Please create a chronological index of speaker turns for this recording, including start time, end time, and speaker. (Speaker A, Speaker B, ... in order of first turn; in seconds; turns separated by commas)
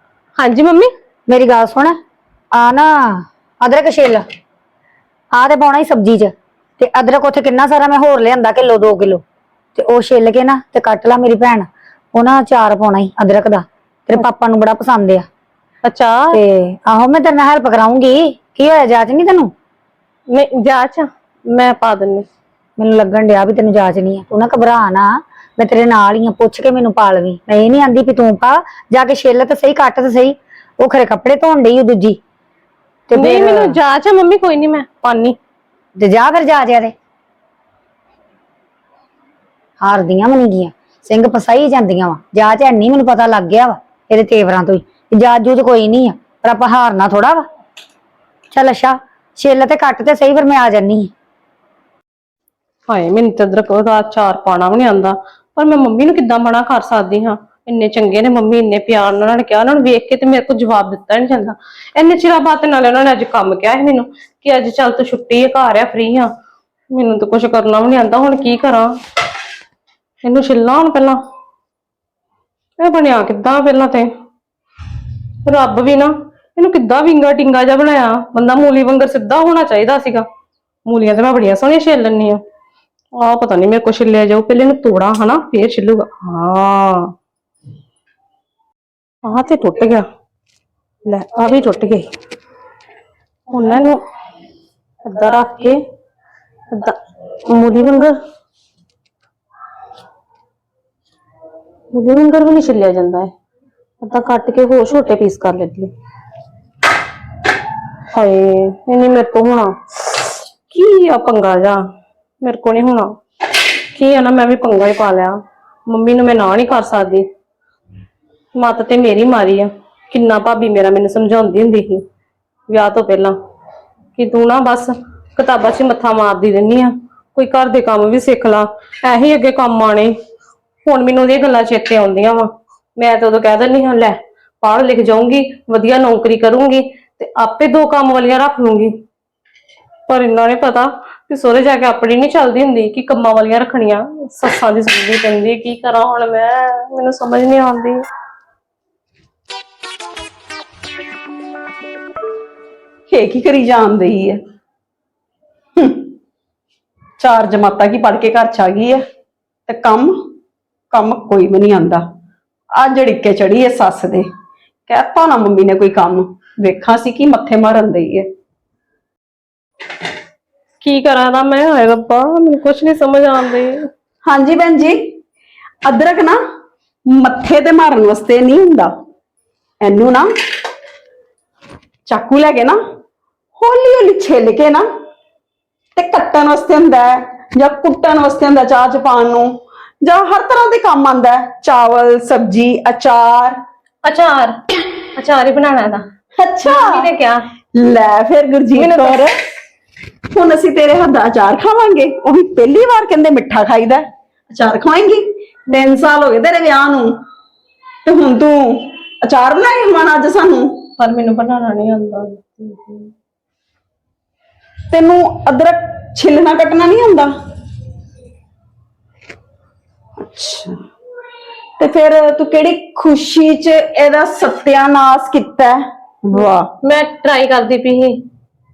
Speaker A: 0.4-0.9, Speaker B: 1.3-2.0, Speaker B: 2.5-4.2, Speaker B: 5.3-9.2, Speaker B: 9.8-15.3, Speaker A: 15.8-16.4, Speaker B: 16.3-19.5, Speaker A: 20.3-22.3, Speaker B: 22.8-32.2, Speaker B: 33.1-33.8, Speaker A: 33.1-35.4, Speaker B: 36.0-36.9, Speaker B: 39.8-47.5, Speaker B: 48.5-51.1, Speaker A: 52.9-66.3, Speaker A: 66.9-68.9, Speaker A: 70.2-71.2, Speaker A: 72.8-74.1, Speaker A: 75.5-80.3, Speaker A: 80.8-82.4, Speaker A: 83.2-87.1, Speaker A: 89.2-90.1, Speaker A: 91.0-92.1, Speaker A: 93.5-94.0, Speaker A: 95.0-95.8, Speaker A: 97.5-98.1, Speaker A: 101.9-103.3, Speaker A: 104.0-105.9, Speaker A: 108.1-111.8, Speaker A: 112.4-113.2, Speaker A: 113.9-117.3, Speaker A: 118.5-122.0, Speaker A: 122.7-123.4, Speaker A: 124.2-130.2, Speaker A: 130.8-139.0, Speaker A: 140.1-148.0, Speaker C: 153.1-154.4, Speaker C: 155.8-156.1, Speaker C: 157.2-159.0, Speaker C: 159.7-160.1, Speaker C: 160.9-162.0, Speaker C: 162.8-164.3, Speaker C: 164.9-168.3, Speaker A: 170.8-173.9, Speaker C: 174.2-175.1, Speaker C: 175.8-176.4, Speaker C: 177.1-178.9, Speaker C: 179.8-180.3, Speaker C: 182.1-182.8, Speaker C: 183.6-184.9, Speaker C: 186.0-193.6, Speaker A: 194.0-194.6, Speaker A: 195.2-196.1, Speaker C: 196.4-197.1, Speaker A: 196.6-197.5, Speaker C: 197.8-199.3, Speaker A: 198.8-199.3, Speaker C: 200.3-207.2, Speaker C: 208.1-210.8, Speaker A: 211.0-213.1, Speaker C: 214.9-217.3, Speaker C: 220.2-220.8, Speaker C: 221.8-226.7, Speaker A: 226.8-228.2